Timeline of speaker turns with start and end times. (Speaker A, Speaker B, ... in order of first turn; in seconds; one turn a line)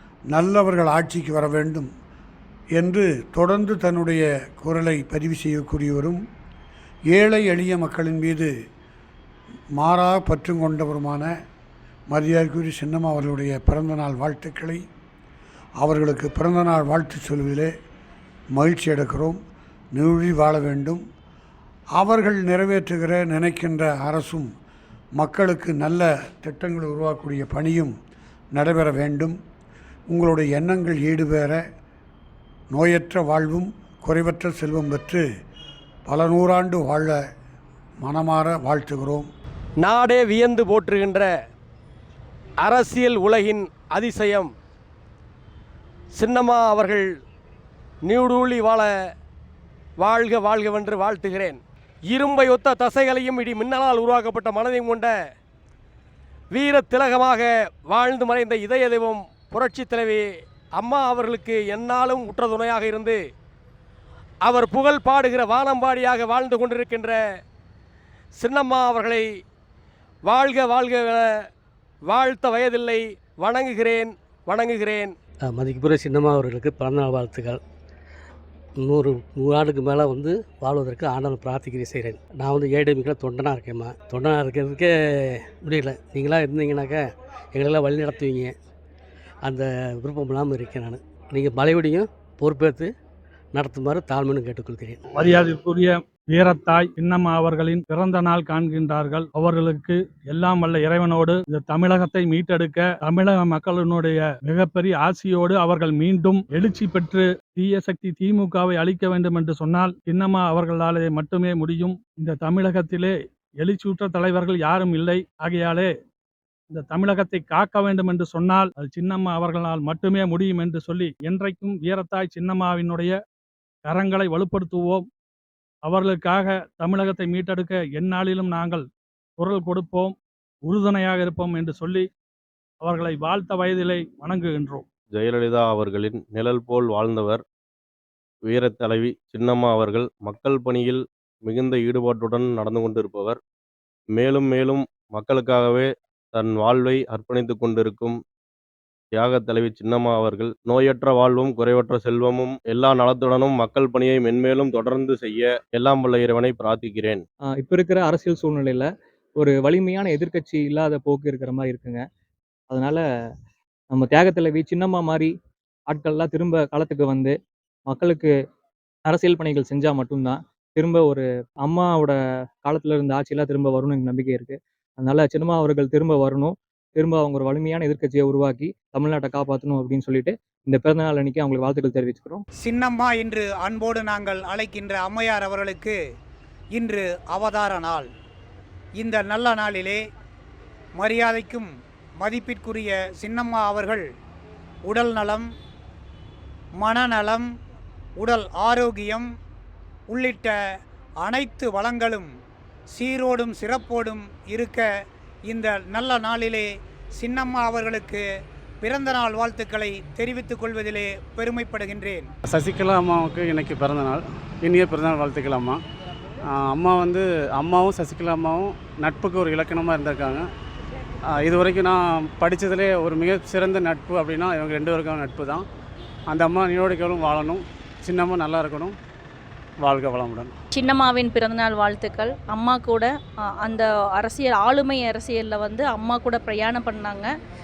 Speaker A: 0.3-1.9
Speaker A: 2.7-6.2
Speaker A: 7.1-8.5
Speaker A: 9.8-11.3
Speaker A: 12.1-14.8
Speaker A: 15.8-17.7
Speaker A: 18.5-19.4
Speaker A: 19.9-21.0
Speaker A: 22.0-24.5
Speaker A: 25.2-27.9
Speaker A: 28.5-29.4
Speaker A: 30.1-31.6
Speaker A: 32.7-35.2
Speaker A: 36.0-37.2
Speaker A: 38.0-39.3
Speaker B: 39.8-41.3
Speaker B: 42.6-44.5
Speaker B: 46.1-47.1
Speaker B: 48.0-48.9
Speaker B: 50.0-55.1
Speaker B: 56.5-63.2
Speaker B: 64.4-67.2
Speaker B: 68.4-69.3
Speaker B: 70.2-71.3
Speaker B: 72.1-75.1
Speaker C: 75.5-77.6
Speaker C: 78.8-88.5
Speaker C: 89.4-92.9
Speaker C: 93.5-95.0
Speaker D: 95.1-115.9
Speaker D: 116.7-123.2
Speaker D: 123.8-125.1
Speaker D: 125.8-132.1
Speaker D: 132.8-134.8
Speaker E: 135.1-137.4
Speaker E: 138.4-143.4
Speaker E: 144.1-148.2
Speaker E: 149.1-157.2
Speaker F: 157.5-162.0
Speaker F: 162.7-163.0
Speaker F: 163.9-165.3
Speaker F: 165.9-167.3
Speaker F: 167.9-168.3
Speaker F: 169.1-182.4
Speaker G: 182.6-186.0
Speaker G: 186.7-188.1
Speaker G: 189.0-190.0
Speaker G: 191.0-194.0
Speaker G: 194.9-195.5
Speaker G: 196.8-197.5
Speaker G: 198.2-199.3
Speaker G: 200.1-200.5
Speaker G: 201.2-202.3
Speaker G: 202.9-204.8
Speaker G: 205.5-206.7
Speaker G: 207.2-208.2
Speaker G: 208.8-212.3
Speaker H: 212.5-215.8
Speaker H: 216.5-220.5
Speaker H: 221.3-225.7
Speaker H: 226.3-228.9
Speaker H: 229.8-230.5
Speaker I: 230.7-237.3